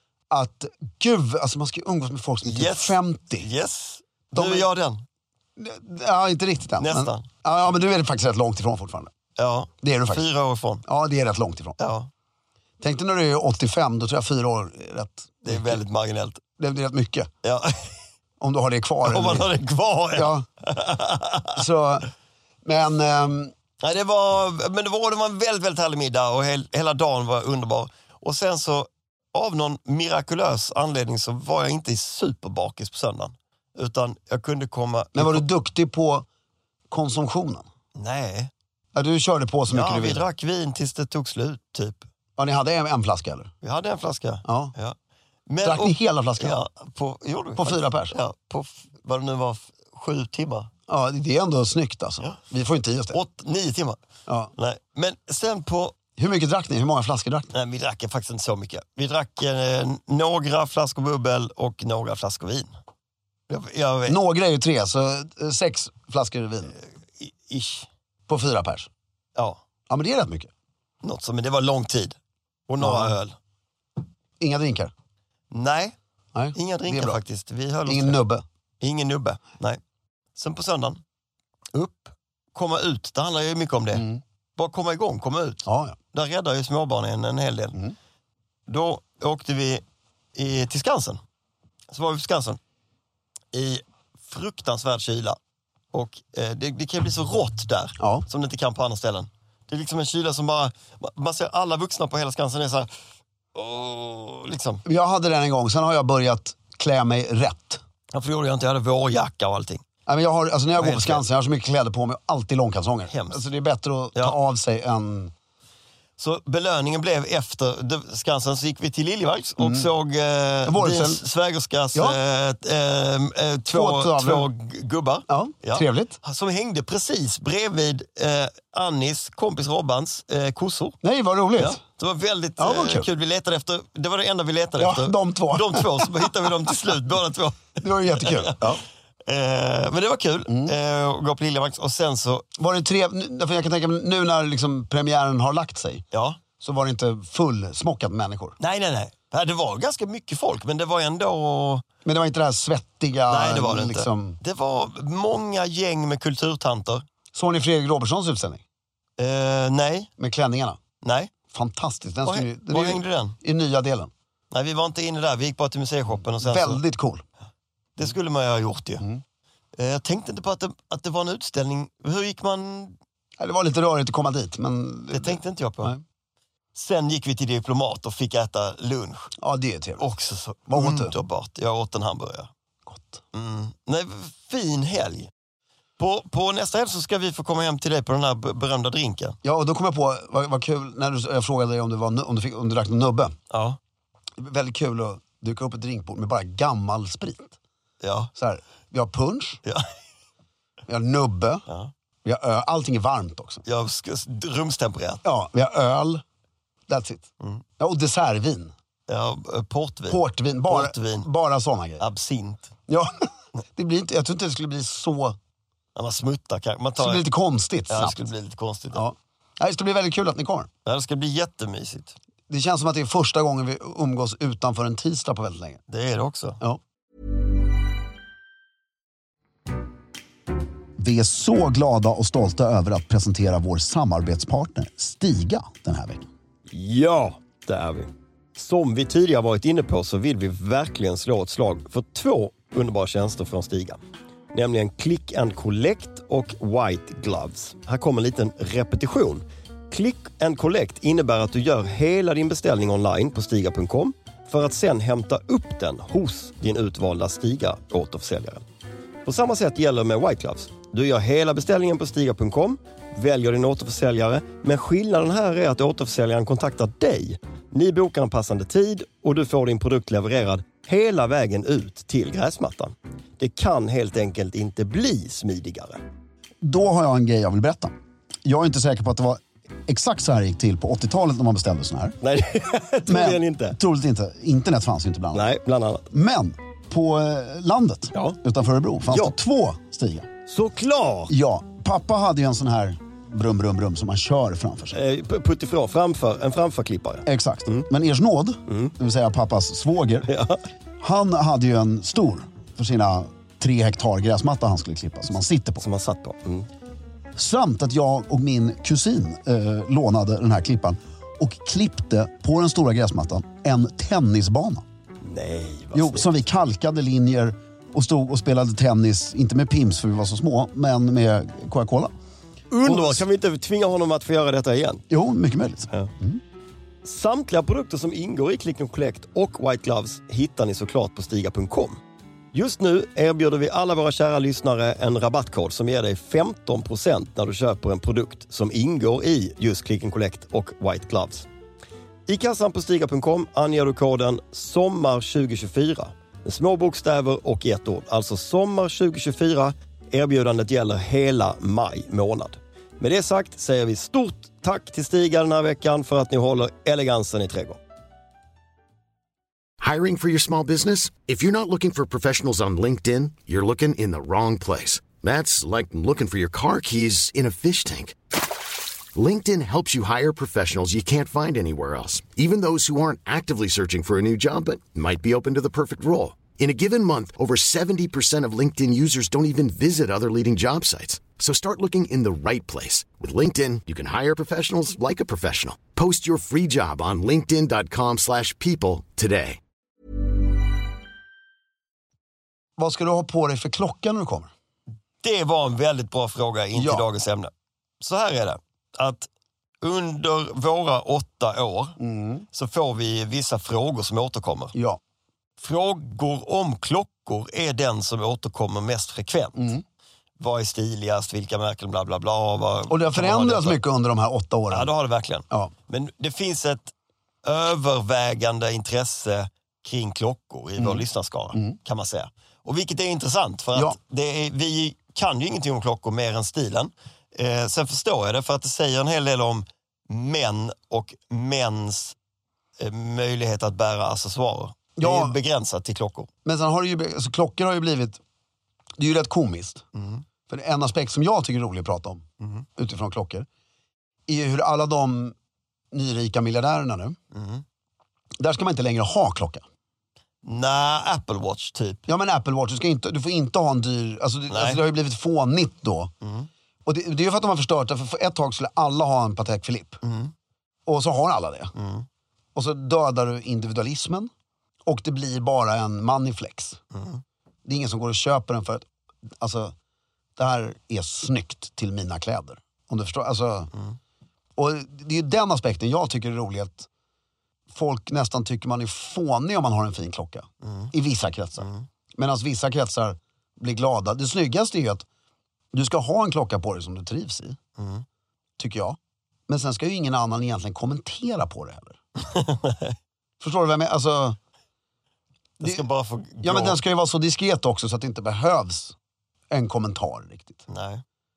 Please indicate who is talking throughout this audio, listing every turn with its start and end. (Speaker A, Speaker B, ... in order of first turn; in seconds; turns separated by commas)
Speaker A: 0.3-3.5, Speaker B: 2.4-5.0, Speaker A: 4.3-4.7, Speaker A: 5.6-9.1, Speaker B: 6.8-7.3, Speaker B: 9.4-10.8, Speaker A: 9.8-10.3, Speaker A: 10.9-11.8, Speaker B: 11.8-12.1, Speaker A: 12.8-15.8, Speaker B: 15.4-16.4, Speaker A: 16.6-17.3, Speaker B: 17.4-17.9, Speaker A: 18.4-19.5, Speaker B: 19.0-21.6, Speaker A: 20.1-20.4, Speaker A: 21.5-22.1, Speaker A: 22.6-23.5, Speaker B: 23.8-35.5, Speaker A: 35.1-36.3, Speaker A: 36.9-37.7, Speaker B: 38.0-38.5, Speaker A: 38.9-40.2, Speaker B: 39.7-42.0, Speaker A: 42.4-43.5, Speaker B: 43.6-50.7, Speaker A: 44.5-44.7, Speaker A: 45.6-46.6, Speaker A: 47.6-48.2, Speaker A: 50.9-53.2, Speaker B: 53.1-54.0, Speaker A: 54.3-54.5, Speaker B: 54.6-56.0, Speaker A: 56.2-57.5, Speaker B: 57.5-62.7, Speaker B: 63.5-64.2, Speaker A: 64.1-66.8, Speaker B: 66.8-67.9, Speaker A: 68.3-68.9, Speaker B: 69.4-69.6, Speaker A: 69.9-70.5, Speaker B: 71.0-72.2, Speaker B: 72.7-73.4, Speaker A: 72.8-73.2, Speaker A: 74.4-74.9, Speaker B: 75.5-76.0, Speaker A: 76.3-77.2, Speaker B: 76.5-78.2, Speaker A: 77.9-78.4, Speaker B: 78.8-79.8, Speaker B: 80.4-81.0, Speaker B: 81.7-84.0, Speaker A: 83.9-84.2, Speaker B: 84.6-87.8, Speaker A: 85.7-86.0, Speaker B: 88.7-89.8, Speaker B: 90.3-91.2, Speaker B: 91.9-92.6, Speaker B: 93.5-95.4, Speaker B: 95.9-102.9, Speaker A: 98.0-98.2, Speaker B: 103.5-104.8, Speaker A: 104.8-107.8, Speaker B: 108.1-109.8, Speaker A: 110.1-115.3, Speaker B: 110.8-111.2, Speaker B: 113.1-113.4, Speaker B: 116.2-131.0, Speaker A: 119.6-119.9, Speaker A: 120.7-121.2, Speaker A: 123.7-124.5, Speaker A: 125.3-126.2, Speaker A: 131.0-131.8, Speaker B: 131.6-142.5, Speaker A: 132.6-133.1, Speaker A: 134.8-136.3, Speaker A: 137.8-138.8, Speaker A: 140.5-140.7, Speaker A: 142.6-146.0, Speaker B: 146.1-146.4, Speaker A: 146.6-148.6, Speaker B: 148.6-151.8, Speaker A: 152.1-154.4, Speaker B: 153.3-157.0, Speaker A: 157.3-158.6, Speaker B: 159.2-160.1, Speaker A: 160.2-160.8, Speaker B: 161.0-161.3, Speaker A: 161.5-164.1, Speaker B: 162.2-163.4, Speaker B: 164.5-166.8, Speaker A: 166.4-167.2, Speaker B: 168.0-169.0, Speaker B: 169.7-173.0, Speaker A: 173.4-176.0, Speaker B: 175.1-175.9, Speaker B: 176.7-179.3, Speaker A: 179.4-180.1, Speaker B: 180.0-182.5, Speaker A: 180.7-181.2, Speaker A: 182.9-183.2, Speaker B: 183.3-185.3, Speaker B: 186.0-189.4, Speaker A: 189.4-193.4, Speaker B: 193.5-193.8, Speaker A: 194.4-197.6, Speaker B: 198.0-198.3, Speaker A: 198.3-199.6, Speaker A: 200.9-201.7, Speaker B: 201.7-201.9, Speaker A: 202.2-203.6, Speaker B: 203.7-205.2, Speaker A: 205.2-206.2, Speaker A: 206.9-207.3, Speaker A: 207.8-208.7, Speaker B: 209.1-211.3, Speaker A: 210.1-212.0, Speaker B: 212.0-212.7, Speaker A: 212.9-215.4, Speaker B: 215.9-217.3, Speaker A: 217.0-218.3, Speaker B: 217.9-219.0, Speaker A: 218.9-220.7, Speaker B: 220.9-222.2, Speaker A: 222.5-225.8, Speaker B: 225.9-226.6, Speaker A: 231.0-236.3, Speaker B: 236.7-244.0, Speaker B: 244.5-258.6, Speaker B: 259.2-276.0, Speaker A: 276.6-282.2, Speaker B: 282.2-283.8, Speaker A: 283.1-285.4, Speaker B: 285.3-286.1, Speaker A: 286.1-290.3, Speaker B: 289.1-289.3, Speaker B: 290.5-291.3, Speaker A: 291.3-295.0, Speaker B: 294.9-297.9, Speaker A: 297.3-300.3, Speaker B: 298.7-298.9, Speaker B: 300.3-300.6, Speaker A: 301.0-305.8, Speaker B: 305.8-306.7, Speaker A: 307.4-314.8, Speaker B: 315.2-316.3, Speaker A: 315.9-322.1, Speaker B: 322.7-325.0, Speaker A: 322.7-323.2, Speaker A: 325.1-326.4, Speaker B: 327.0-332.0, Speaker B: 332.5-341.5, Speaker B: 342.3-357.8, Speaker C: 359.8-368.2, Speaker C: 369.1-389.6, Speaker A: 392.8-394.5, Speaker B: 395.2-399.3, Speaker A: 396.7-397.1, Speaker B: 399.8-402.0, Speaker A: 402.0-402.5, Speaker B: 402.5-404.7, Speaker A: 404.7-405.0, Speaker B: 405.6-409.7, Speaker A: 409.6-409.8, Speaker B: 410.4-413.8, Speaker A: 412.9-414.9, Speaker B: 414.7-416.9, Speaker B: 417.4-432.2, Speaker A: 420.8-421.0, Speaker B: 432.8-436.3, Speaker A: 435.0-435.4, Speaker A: 436.4-438.2, Speaker A: 439.0-439.9, Speaker B: 439.9-440.2, Speaker A: 440.5-442.2, Speaker A: 442.8-443.5, Speaker A: 444.3-445.4, Speaker A: 445.9-447.2, Speaker B: 447.3-447.6, Speaker A: 448.4-449.6, Speaker B: 450.4-452.1, Speaker A: 452.1-456.1, Speaker B: 454.5-454.8, Speaker B: 456.2-456.5, Speaker A: 456.9-460.0, Speaker B: 460.0-460.3, Speaker A: 460.9-461.7, Speaker B: 461.8-462.1, Speaker A: 462.6-464.3, Speaker A: 464.9-466.8, Speaker B: 466.9-467.2, Speaker A: 467.6-468.9, Speaker A: 469.4-469.7, Speaker A: 470.4-473.7, Speaker A: 474.6-476.9, Speaker A: 477.7-485.1, Speaker B: 480.6-480.9, Speaker B: 481.6-481.9, Speaker A: 485.7-487.6, Speaker B: 487.8-488.1, Speaker A: 488.6-489.0, Speaker A: 489.5-492.0, Speaker B: 492.2-492.9, Speaker A: 493.4-494.4, Speaker B: 495.6-496.8, Speaker A: 495.6-495.9, Speaker A: 496.4-498.9, Speaker A: 499.5-500.7, Speaker B: 500.7-501.0